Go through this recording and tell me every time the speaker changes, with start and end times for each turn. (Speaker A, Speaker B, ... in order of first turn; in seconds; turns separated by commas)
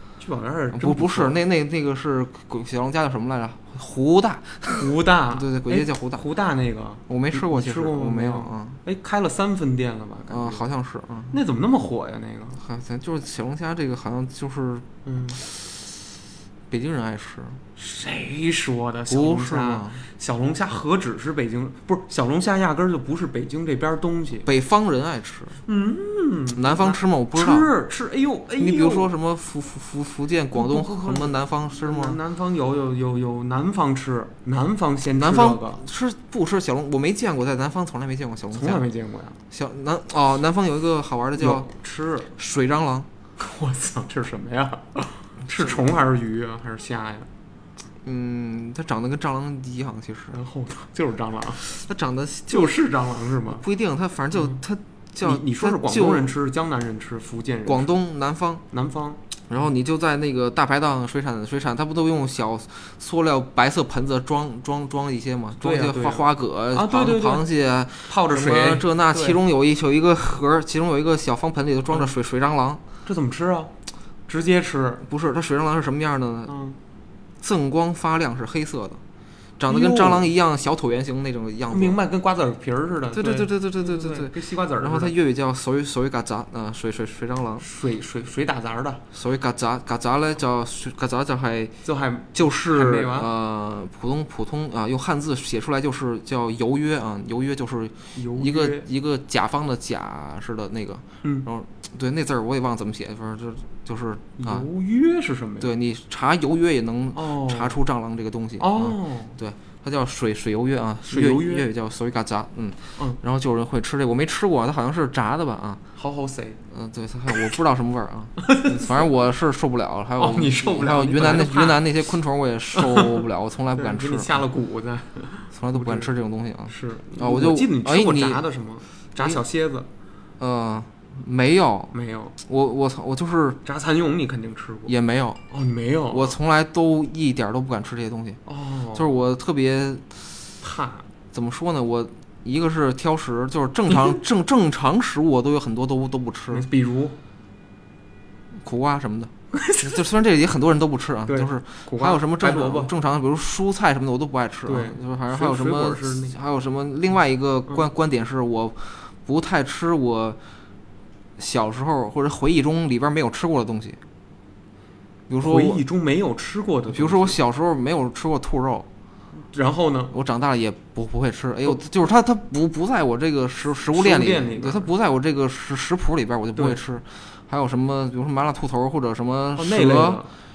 Speaker A: 0.2-1.4, Speaker B: 0.7-6.2, Speaker A: 4.7-10.7, Speaker B: 7.1-8.8, Speaker B: 10.3-11.3, Speaker A: 11.3-12.6, Speaker B: 12.6-14.9, Speaker A: 15.1-15.4, Speaker B: 15.4-15.9, Speaker B: 16.7-17.6, Speaker A: 17.8-24.5, Speaker B: 19.1-20.0, Speaker B: 24.4-25.6, Speaker A: 25.7-29.1, Speaker B: 26.6-27.7, Speaker B: 28.6-32.2, Speaker A: 30.5-35.8, Speaker B: 35.2-38.8, Speaker A: 38.5-39.4, Speaker B: 39.5-41.7, Speaker A: 41.4-42.3, Speaker B: 42.3-43.1, Speaker A: 43.4-47.3, Speaker B: 45.5-45.8, Speaker B: 48.0-50.4, Speaker A: 50.3-51.6, Speaker B: 51.6-52.8, Speaker A: 52.5-53.6, Speaker B: 53.5-56.3, Speaker A: 54.3-54.6, Speaker A: 55.2-57.9, Speaker B: 57.7-58.6, Speaker A: 58.7-59.2, Speaker B: 59.5-72.8, Speaker A: 65.6-67.5, Speaker A: 68.1-69.4, Speaker A: 73.1-73.7, Speaker A: 74.3-75.0, Speaker B: 75.0-76.5, Speaker A: 76.5-76.8, Speaker B: 77.4-79.0, Speaker B: 79.6-82.0, Speaker A: 79.7-80.3, Speaker A: 81.7-85.2, Speaker B: 83.1-87.7, Speaker A: 87.6-89.0, Speaker B: 89.1-91.8, Speaker A: 91.8-93.3, Speaker B: 92.3-104.7, Speaker A: 98.2-98.9, Speaker A: 104.4-105.7, Speaker B: 105.6-115.8, Speaker A: 107.1-107.8, Speaker A: 108.6-109.4, Speaker A: 111.1-111.7, Speaker A: 116.0-116.6, Speaker B: 116.7-124.4, Speaker A: 118.4-119.1, Speaker A: 120.2-121.9, Speaker A: 122.7-123.2, Speaker A: 123.8-126.1, Speaker B: 125.5-128.4, Speaker A: 126.7-129.9, Speaker B: 130.4-133.6, Speaker A: 131.9-132.3, Speaker A: 133.7-134.9, Speaker B: 134.9-135.4, Speaker A: 135.5-136.4, Speaker B: 136.1-138.4, Speaker A: 138.5-139.1, Speaker B: 138.9-140.3, Speaker A: 140.6-141.1, Speaker B: 141.3-146.7, Speaker A: 146.5-147.2, Speaker B: 148.6-160.4, Speaker A: 149.5-150.0, Speaker A: 151.3-152.9, Speaker A: 154.7-156.4, Speaker B: 161.4-164.0, Speaker B: 165.3-165.8, Speaker A: 165.4-167.4, Speaker B: 166.9-168.9, Speaker A: 169.4-170.1, Speaker B: 170.1-180.2, Speaker A: 173.9-174.9, Speaker A: 179.6-180.3